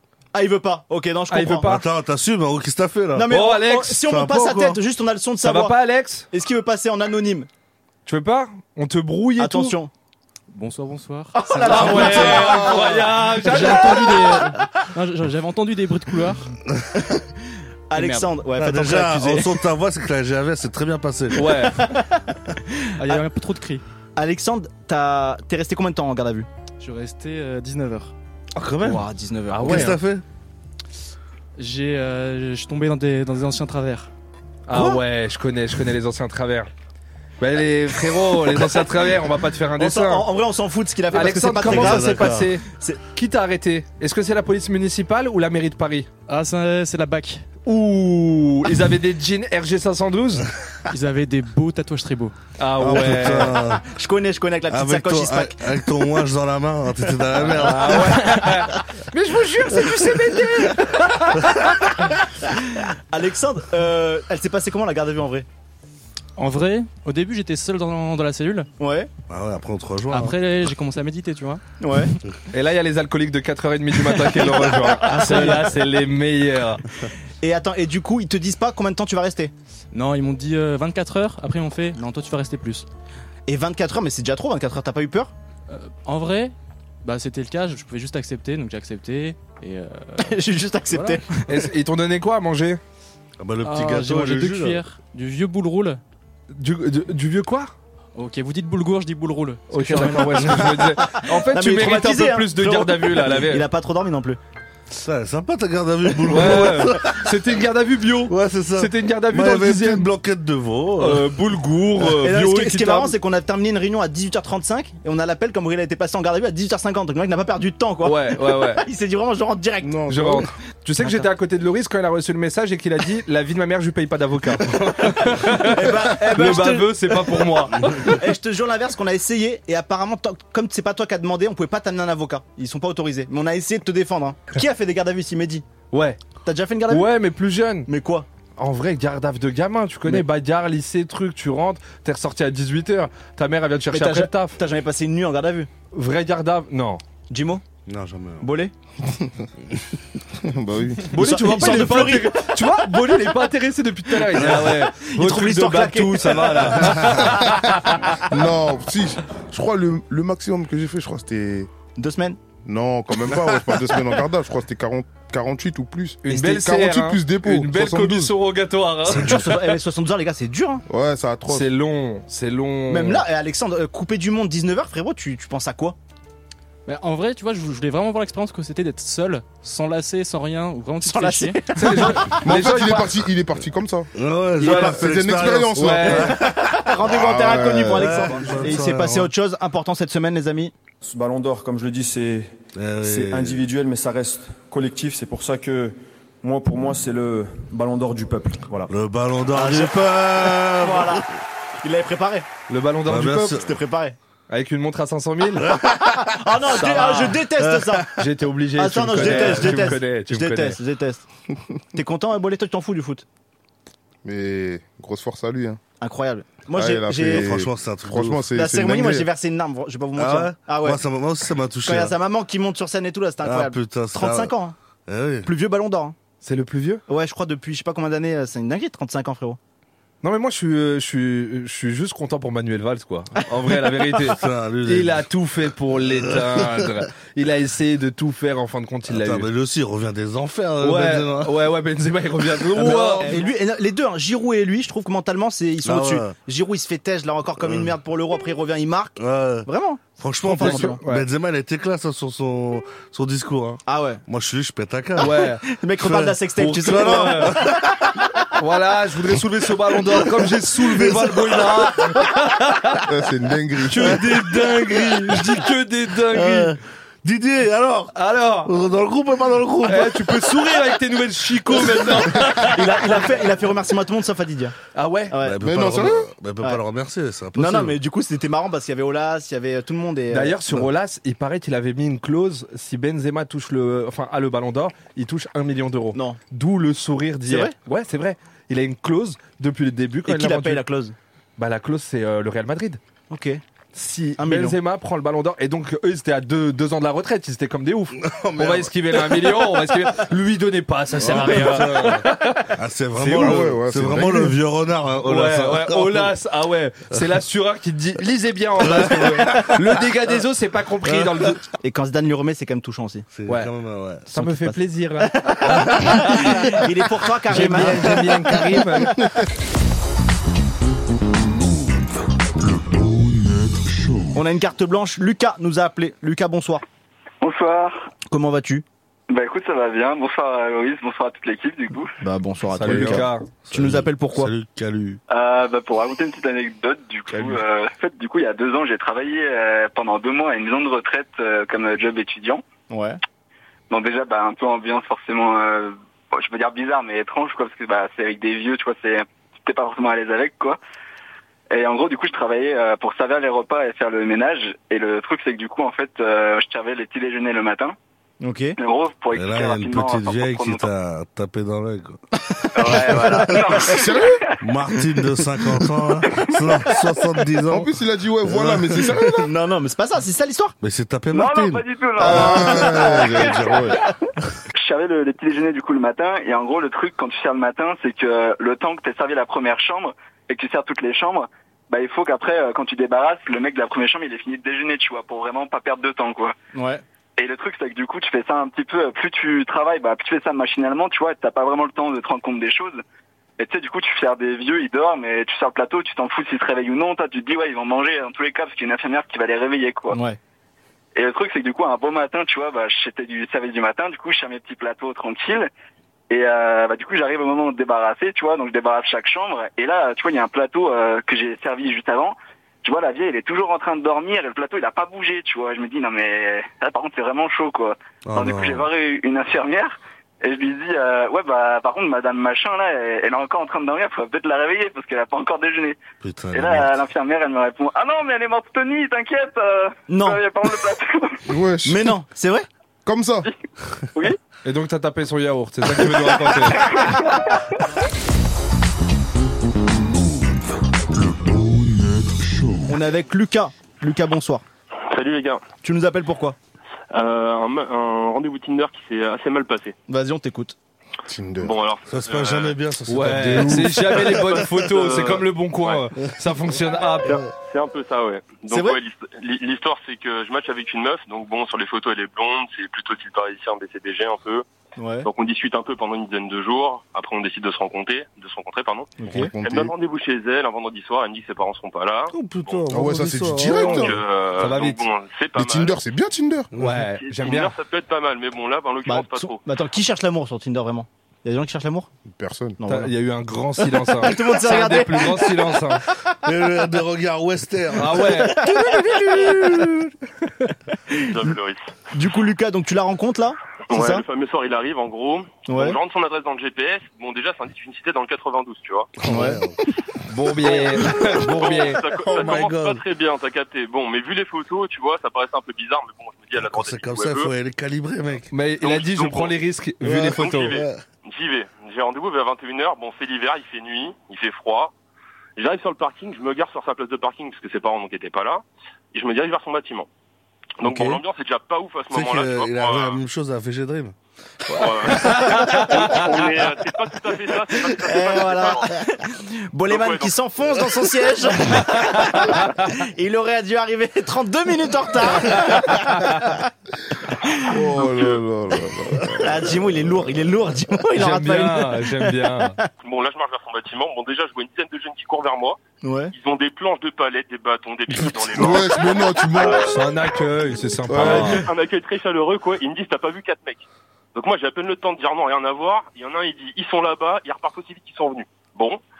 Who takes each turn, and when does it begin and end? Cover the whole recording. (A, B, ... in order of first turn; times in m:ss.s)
0:00.3-0:01.7 A
0:01.3-0:01.8 B
0:01.6-0:03.4 C
0:03.1-0:05.8 A
0:03.3-0:04.0 B
0:04.0-0:04.8 C
0:05.4-0:06.3 B
0:06.3-0:07.5 A
0:08.0-0:09.8 B
0:09.4-0:09.9 A
0:10.5-0:16.5 D
0:11.3-0:14.5 A
0:11.5-0:14.3 B
0:17.9-0:19.6 A
0:17.9-0:18.3 D
0:18.6-0:21.6 C
0:21.3-0:21.9 B
0:21.8-0:22.3 A
0:23.0-0:23.8 D
0:24.2-0:26.5 A
0:26.8-0:28.1 D
0:28.5-0:29.1 C
0:28.8-0:30.0 A
0:29.6-0:30.0 B
0:29.6-0:30.2 C
0:31.6-0:34.1 D
0:34.7-0:36.7 B
0:37.4-0:40.3 B
0:39.8-0:43.0 A
0:41.1-0:46.1 B
0:41.6-0:42.5 C
0:46.3-0:47.5 D
0:47.6-0:50.5 B
0:50.9-0:52.4 D
0:52.6-0:53.6 B
0:52.8-0:53.8 C
0:53.8-0:55.6 A
0:54.7-0:58.4 C
0:57.5-1:02.0 B
1:02.8-1:05.4 A
1:06.4-1:08.7 D
1:08.8-1:09.1 A
1:09.3-1:10.4 C
1:10.1-1:11.6 D
1:11.8-1:12.1 A
1:12.5-1:16.8 B
1:15.0-1:15.6 A
1:15.0-1:15.9 D
1:17.4-1:19.5 A
1:19.9-1:22.9 D
1:23.5-1:25.3 A
1:25.7-1:30.3 D
1:30.2-1:31.4 A
1:30.9-1:31.2 D
1:31.4-1:32.8 B
1:33.4-1:34.8 C
1:33.6-1:36.0 D
1:36.5-1:37.7 B
1:38.1-1:40.9 D
1:39.7-1:43.7 B
1:40.4-1:44.4 A
1:45.0-1:47.3 C
1:46.3-1:50.1 B
1:48.3-1:51.3 C
1:51.0-1:53.1 B
1:52.0-1:59.9 A
1:58.0-1:58.8 B
1:59.8-2:00.5 E
2:00.1-2:08.2 B
2:01.0-2:01.2 A
2:05.4-2:15.6 A
2:15.9-2:16.2 B
2:16.4-2:17.1 A
2:16.9-2:17.9 B
2:17.9-2:18.2 A
2:18.6-2:24.6 B
2:23.9-2:25.7 A
2:25.9-2:27.0 B
2:27.3-2:27.6 A
2:27.9-2:28.5 C
2:28.4-2:28.7 A
2:30.4-2:31.2 E
2:31.1-2:38.2 B
2:31.1-2:32.4 A
2:34.3-2:34.8 C
2:35.0-2:37.0 A
2:36.9-2:37.4 C
2:36.9-2:37.3 E
2:38.3-2:41.7 E
2:42.0-2:42.4 A
2:42.6-2:48.3 E
2:46.2-2:49.8 B
2:46.3-2:46.6 A
2:49.0-2:50.8 A
2:50.9-2:51.7 E
2:51.5-2:53.2 B
2:52.9-2:56.0 A
2:56.8-3:01.7 D
3:01.0-3:02.3 A
3:01.7-3:03.2 B
3:02.3-3:06.3 E
3:04.1-3:06.4 C
3:04.6-3:05.0 B
3:05.8-3:06.4 B
3:06.5-3:10.7 A
3:07.0-3:08.6 E
3:08.0-3:09.3 C
3:11.0-3:18.9 F
3:12.7-3:13.6 C
3:18.9-3:21.2 C
3:19.5-3:20.0 A
3:20.5-3:21.3 A
3:21.8-3:22.5 A
3:22.7-3:23.6 B
3:23.0-3:23.7 C
3:23.6-3:24.2 A
3:24.5-3:25.7 B
3:26.0-3:28.1 A
3:26.7-3:27.5 B
3:27.7-3:28.2 C
3:28.1-3:30.8 B
3:28.8-3:31.2 A
3:29.1-3:29.9 C
3:31.9-3:33.2 A
3:34.2-3:35.8 E
3:36.0-3:37.5 A
3:36.7-3:39.3 E
3:37.2-3:38.5 C
3:38.5-3:41.0 A
3:40.2-3:42.1 C
3:41.8-3:44.7 A
3:43.4-3:44.5 C
3:45.1-3:45.5 C
3:45.4-3:46.2 A
3:46.4-3:47.0 B
3:47.1-3:49.6 A
3:50.2-3:59.5 B
3:54.2-3:55.3 C
3:56.0-3:57.0 C
3:59.1-4:01.6 C
4:00.8-4:03.5 B
4:02.7-4:03.3 C
4:02.8-4:11.0 A
4:05.8-4:06.4 C
4:07.6-4:07.9 C
4:09.2-4:18.1 C
4:10.5-4:11.2 B
4:13.8-4:14.2 A
4:15.2-4:15.6 B
4:15.6-4:17.7 A
4:16.6-4:17.7 B
4:18.5-4:23.0 B
4:23.1-4:24.4 E
4:23.9-4:26.8 B
4:24.0-4:25.6 C
4:26.3-4:30.5 C
4:28.1-4:28.7 B
4:29.8-4:33.3 B
4:31.8-4:32.2 C
4:32.5-4:34.7 A
4:34.9-4:35.4 B
4:35.3-4:35.6 A
4:35.4-4:38.0 C
4:35.6-4:36.3 E
4:37.5-4:40.7 A
4:40.3-4:50.8 B
4:47.5-4:47.7 A
4:50.2-4:51.1 A
4:51.6-4:53.0 B
4:53.3-4:53.6 A
4:53.9-5:03.7 B
4:54.4-4:54.8 A
4:58.2-4:59.3 C
5:01.2-5:06.3 C
5:01.3-5:01.8 A
5:03.2-5:04.6 E
5:05.2-5:11.6 B
5:08.8-5:09.9 C
5:11.0-5:11.5 C
5:11.8-5:13.2 A
5:13.3-5:14.2 C
5:13.5-5:13.7 B
5:14.2-5:16.8 B
5:14.3-5:18.6 A
5:17.5-5:19.2 B
5:24.3-5:26.8 A
5:27.4-5:28.1 G
5:28.3-5:28.8 A
5:29.3-5:32.1 G
5:32.2-5:34.5 A
5:32.7-5:33.5 B
5:32.9-5:33.2 E
5:33.6-5:35.2 C
5:35.3-5:42.6 G
5:37.3-5:37.6 E
5:42.9-5:43.2 A
5:43.9-5:50.8 G
5:51.7-5:57.9 G
5:58.4-5:58.8 A
5:58.8-6:00.9 G
5:59.3-6:02.2 C
6:02.7-6:04.3 G
6:02.8-6:03.8 C
6:02.9-6:03.5 A
6:03.3-6:04.4 E
6:04.6-6:09.2 C
6:07.7-6:09.5 E
6:09.3-6:10.7 A
6:10.8-6:13.9 C
6:11.3-6:13.8 G
6:12.2-6:14.0 E
6:12.2-6:13.2 A
6:14.7-6:26.5 G
6:26.7-6:27.0 A
6:27.4-6:33.0 G
6:33.6-6:40.2 G
6:40.1-6:40.4 A
6:41.1-6:45.7 G
6:46.3-7:06.0 G
6:58.2-6:58.9 C
7:06.2-7:06.9 C
7:06.5-7:11.4 G
7:10.1-7:10.4 A
7:11.4-7:12.1 E
7:11.8-7:12.6 A
7:13.0-7:13.5 E
7:14.6-7:17.1 B
7:16.7-7:17.8 G
7:22.9-7:24.6 A
7:25.1-7:25.6 H
7:25.8-7:26.6 A
7:27.1-7:29.9 H
7:30.1-7:30.8 A
7:31.3-7:31.7 E
7:31.6-7:32.8 H
7:32.1-7:34.7 C
7:33.1-7:37.4 B
7:33.7-7:36.0 H
7:37.2-7:44.6 H
7:38.7-7:39.0 A
7:45.0-7:45.3 A
7:45.2-7:52.8 H
7:49.2-7:49.5 A
7:49.3-7:49.9 E
7:52.3-7:54.2 C
7:52.9-7:54.1 E
7:53.7-7:56.0 H
7:54.6-7:55.0 B
7:55.6-7:56.7 E
7:56.7-7:57.7 B
7:56.7-7:57.0 C
7:57.2-7:59.6 H
7:59.0-8:02.1 A
8:02.3-8:02.8 E
8:02.8-8:03.1 A
8:02.8-8:06.0 B
8:04.2-8:05.7 A
8:06.4-8:08.4 C
8:08.0-8:09.8 B
8:08.4-8:09.9 A
8:11.2-8:11.9 H
8:12.1-8:14.2 A
8:13.9-8:19.1 H
8:15.7-8:16.0 A
8:19.2-8:19.8 C
8:19.2-8:19.6 A
8:20.3-8:22.2 B
8:21.1-8:27.5 H
8:22.2-8:23.0 C
8:26.6-8:28.5 C
8:28.5-8:30.8 B
8:28.8-8:29.5 H
8:30.0-8:31.0 C
8:30.2-8:34.9 H
8:35.6-8:40.1 H
8:40.8-8:43.2 H
8:40.8-8:41.1 C
8:42.1-8:44.1 C
8:44.7-8:46.4 B
8:44.8-8:48.9 H
8:48.0-8:56.7 A
8:49.9-8:50.3 H
8:51.9-8:52.8 B
8:55.5-8:56.4 B
8:57.6-8:59.8 E
8:59.4-9:02.8 A
9:01.1-9:02.8 B
9:03.0-9:05.8 H
9:06.0-9:06.3 A
9:06.3-9:09.9 H
9:08.2-9:10.0 E
9:09.7-9:11.6 B
9:11.1-9:11.6 E
9:11.1-9:19.0 H